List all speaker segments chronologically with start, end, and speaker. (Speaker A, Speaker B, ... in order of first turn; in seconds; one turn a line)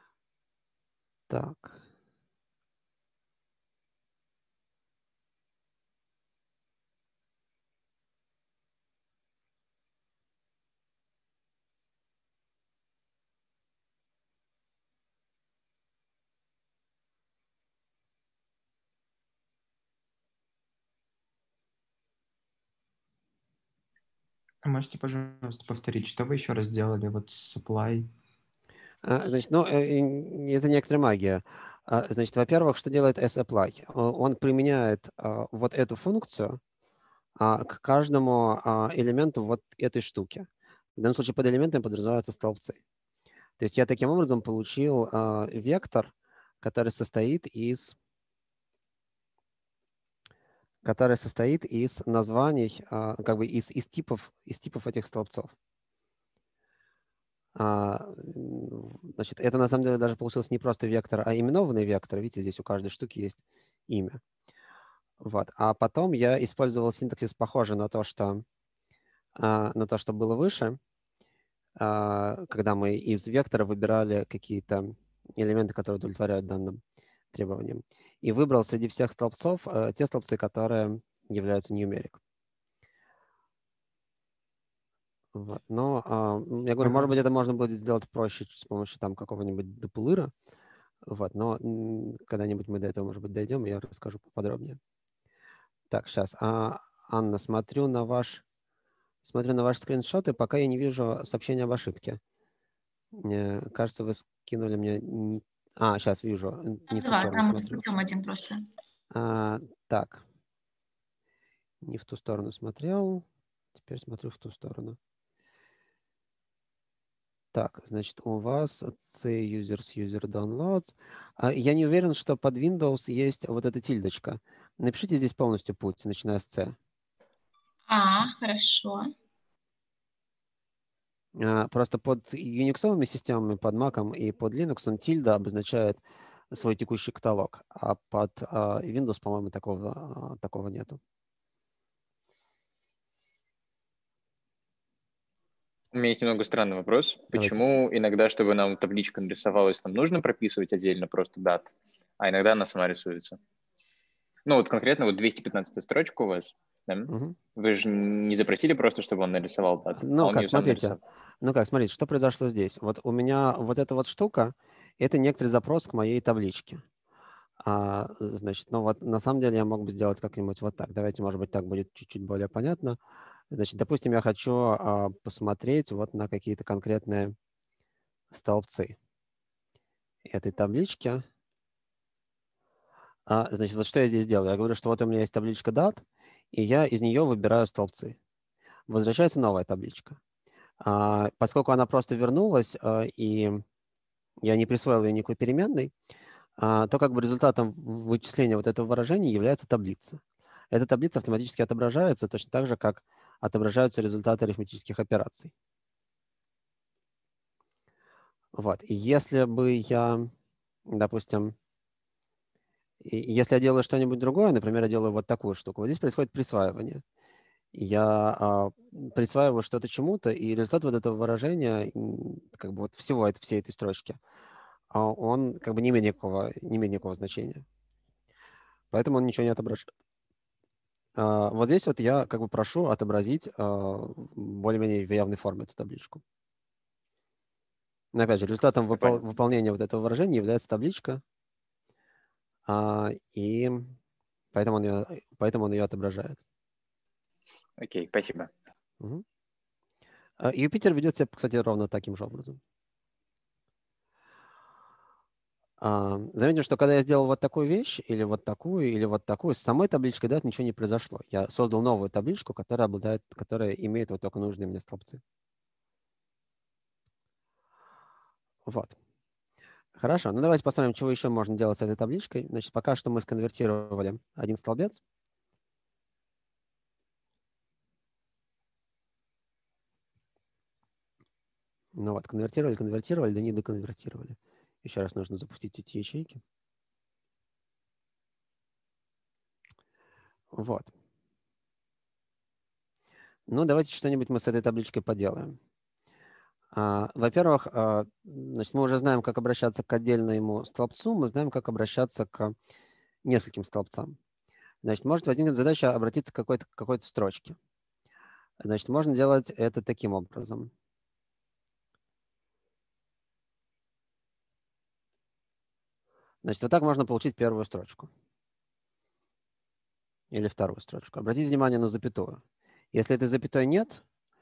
Speaker A: 1.3-1.8
Speaker B: 24.6-28.1
Speaker A: 29.0-36.6
Speaker A: 37.4-42.8
Speaker A: 43.6-48.0
Speaker A: 50.8-55.5
Speaker A: 57.5-64.2
Speaker A: 65.2-68.4
Speaker A: 69.3-70.8
Speaker A: 71.8-76.8
Speaker A: 77.3-82.2
Speaker A: 85.3-90.3
Speaker A: 91.1-94.8
Speaker A: 95.9-98.4
Speaker A: 99.2-102.2
Speaker A: 103.1-107.8
Speaker C: 106.9-108.6
Speaker A: 109.1-110.2
Speaker A: 111.8-115.0
Speaker A: 117.5-126.8
Speaker C: 127.9-129.1
Speaker A: 131.3-141.0
Speaker D: 145.9-153.4
Speaker A: 147.3-147.6
Speaker D: 154.4-161.0
Speaker A: 157.1-157.4
Speaker A: 160.0-166.8
Speaker A: 167.6-173.0
Speaker A: 173.5-177.3
Speaker A: 178.3-179.0
Speaker A: 180.2-181.2
Speaker A: 183.3-188.2
Speaker A: 188.9-190.2
Speaker A: 190.8-193.6
Speaker A: 194.4-195.9
Speaker A: 196.6-200.2
Speaker A: 200.7-205.5
Speaker A: 208.5-210.3
Speaker A: 210.9-211.5
Speaker A: 213.0-217.0
Speaker A: 217.7-224.2
Speaker A: 224.9-227.6
Speaker A: 228.9-229.9
Speaker A: 231.2-236.2
Speaker A: 238.1-241.2
Speaker D: 238.9-239.2
Speaker A: 242.7-243.9
Speaker A: 244.5-246.4
Speaker D: 247.8-248.5
Speaker A: 250.4-252.6
Speaker A: 255.8-265.2
Speaker A: 268.6-268.9
Speaker A: 269.9-275.0
Speaker A: 281.9-286.4
Speaker A: 290.5-290.9
Speaker A: 293.5-295.6
Speaker A: 296.7-302.5
Speaker A: 303.2-304.2
Speaker A: 304.8-307.6
Speaker A: 308.6-310.7
Speaker A: 316.4-318.1
Speaker A: 320.3-322.4
Speaker A: 322.9-324.0